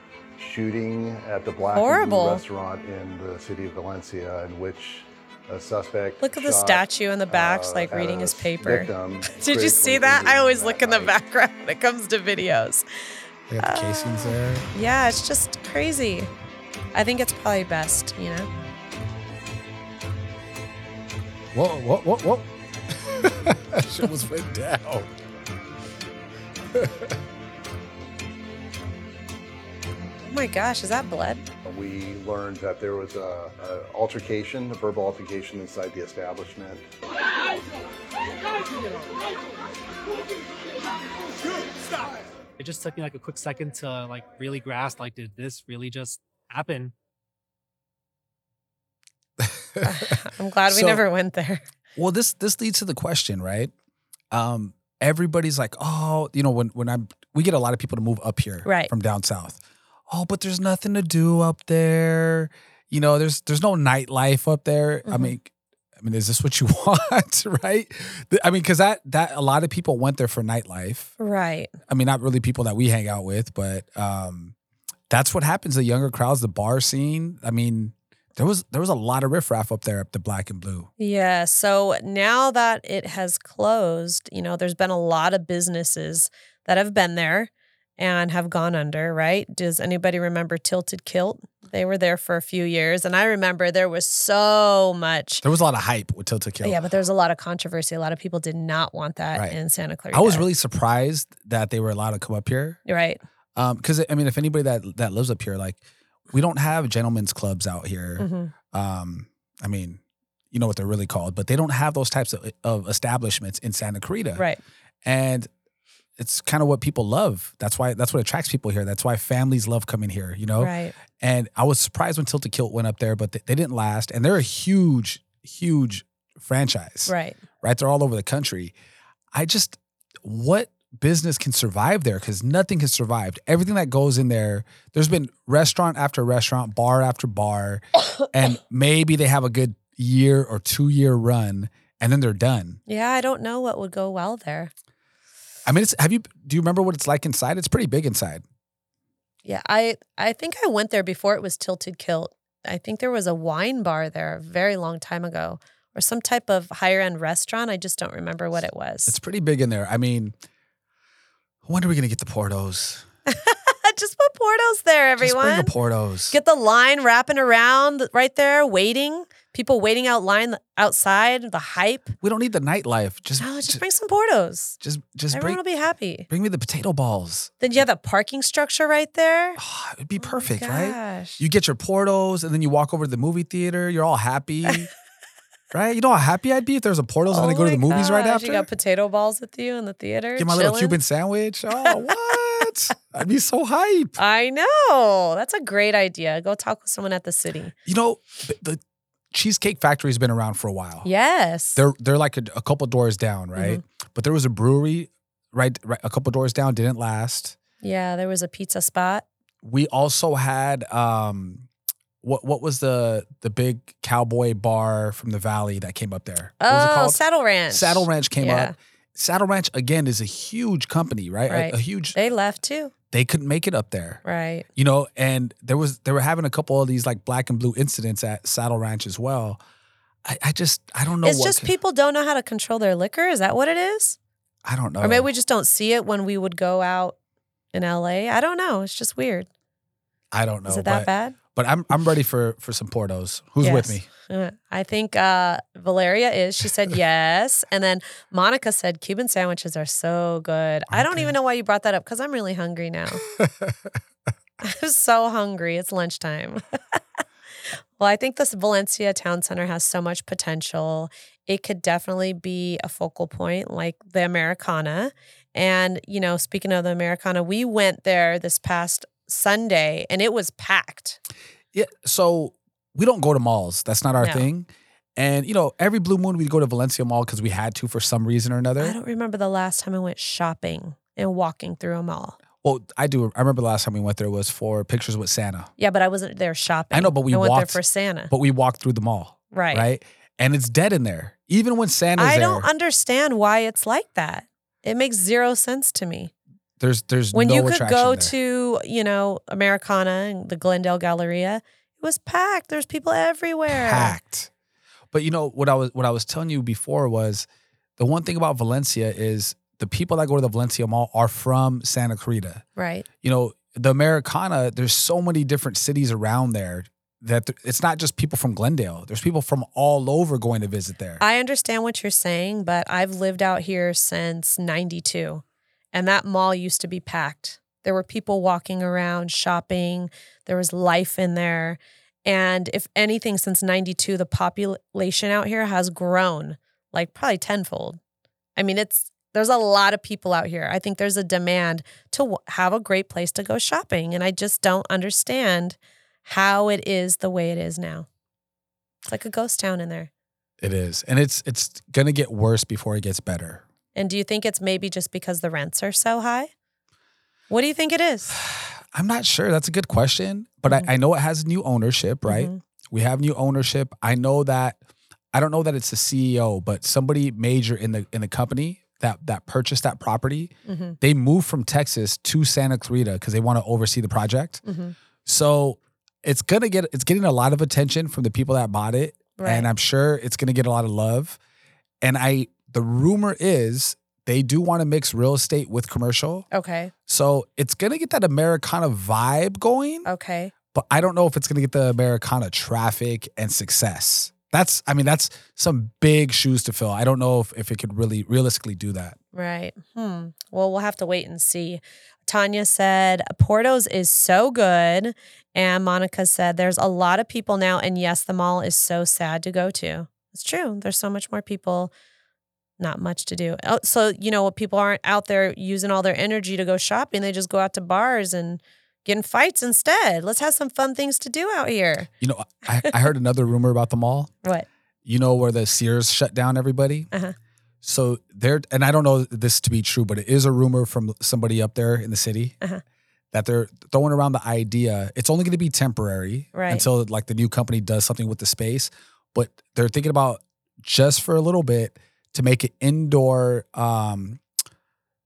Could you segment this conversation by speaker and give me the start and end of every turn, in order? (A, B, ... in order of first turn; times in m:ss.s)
0:00.4-0:11.2 A
0:01.7-0:02.4 B
0:06.2-0:12.8 B
0:13.5-0:14.7 C
0:13.6-0:16.3 B
0:16.9-0:18.5 B
0:21.5-0:25.1 C
0:26.7-0:27.1 C
0:30.3-0:31.4 B
0:31.6-0:36.9 A
0:42.6-0:46.9 D
0:49.4-0:50.1 C
0:49.8-0:51.6 B
0:50.7-0:51.0 C
0:52.0-0:53.7 C
0:54.3-1:11.1 C
0:58.6-0:58.9 B
1:05.1-1:05.4 B
1:11.2-1:11.8 B
1:11.9-1:14.5 C
1:15.1-1:20.9 C
1:21.0-1:35.4 B
1:35.4-1:36.8 C
1:36.6-1:40.5 B
1:40.1-1:42.8 C
1:42.9-1:43.2 B
1:43.6-1:50.0 C
1:48.2-1:48.5 B
1:50.5-1:54.4 C
1:55.0-1:55.5 C
1:56.2-2:08.7 C
2:00.6-2:00.9 B
2:07.1-2:07.4 B
2:09.3-2:22.8 C
2:22.9-2:24.7 B
2:25.6-2:28.4 C
2:29.4-2:39.2 B
2:39.1-2:40.4 C
2:41.6-2:43.0 C
2:43.3-2:45.7 B
2:45.2-2:46.4 C
2:46.3-2:52.2 B
2:52.2-2:53.8 C
2:53.4-2:54.8 B
2:54.8-2:55.6 C
2:55.3-2:56.3 B
2:56.3-2:57.8 C
2:57.6-2:59.6 B
2:59.6-3:04.9 C
3:00.2-3:01.4 B
3:05.7-3:08.7 C
3:07.3-3:11.0 B
3:10.4-3:14.2 C
3:11.8-3:12.1 B
3:14.2-3:17.7 B
3:17.9-3:18.8 C
3:19.3-3:21.1 C
3:21.0-3:21.8 B
3:21.8-3:27.6 C
3:23.6-3:23.8 B
3:27.8-3:29.2 B
3:29.6-3:31.7 C
3:32.2-3:42.2 C
3:36.6-3:38.7 B
3:41.5-3:42.9 B
3:43.1-3:44.2 C
3:44.2-3:44.7 B
3:44.8-3:49.6 C
3:50.2-3:51.7 C
3:51.2-3:54.2 B
3:54.6-3:55.3 C
3:55.0-3:57.2 B
3:57.7-3:59.5 B
4:00.3-4:04.1 C
4:00.7-4:01.4 B
4:03.6-4:13.2 B
4:10.9-4:11.3 C
4:13.3-4:13.8 C
4:14.6-4:17.0 B
4:18.0-4:31.2 B
4:31.7-4:39.0 C
4:34.2-4:34.5 B
4:38.8-4:42.4 B
4:42.6-4:45.7 C
4:45.8-4:48.3 B
4:46.9-4:52.7 C
4:49.5-4:49.9 B
4:52.2-4:56.3 B
4:56.8-4:58.4 C
4:57.3-5:04.2 B
5:03.7-5:04.5 C
5:05.1-5:07.5 C
5:08.0-5:12.6 C
5:12.8-5:13.1 B
5:13.2-5:21.2 C
5:21.2-5:38.0 B
5:38.6-5:48.1 B
5:49.1-5:50.1 B
5:50.6-5:53.6 C
5:54.0-5:56.5 B
5:57.5-5:58.4 B
5:58.3-6:04.8 C
6:02.3-6:02.6 B
6:05.3-6:14.6 C
6:10.7-6:11.0 B
6:14.6-6:15.0 B
6:15.2-6:21.4 C
6:19.4-6:19.7 B
6:22.0-6:26.5 C
6:26.5-6:26.9 B
6:27.1-6:30.1 C
6:30.1-6:30.5 B
6:30.7-6:39.2 C
6:39.3-6:51.9 B
6:52.8-7:02.1 B
7:02.2-7:04.3 C
7:05.0-7:07.1 C
7:07.8-7:12.6 C
7:13.3-7:24.4 C
7:16.5-7:16.9 B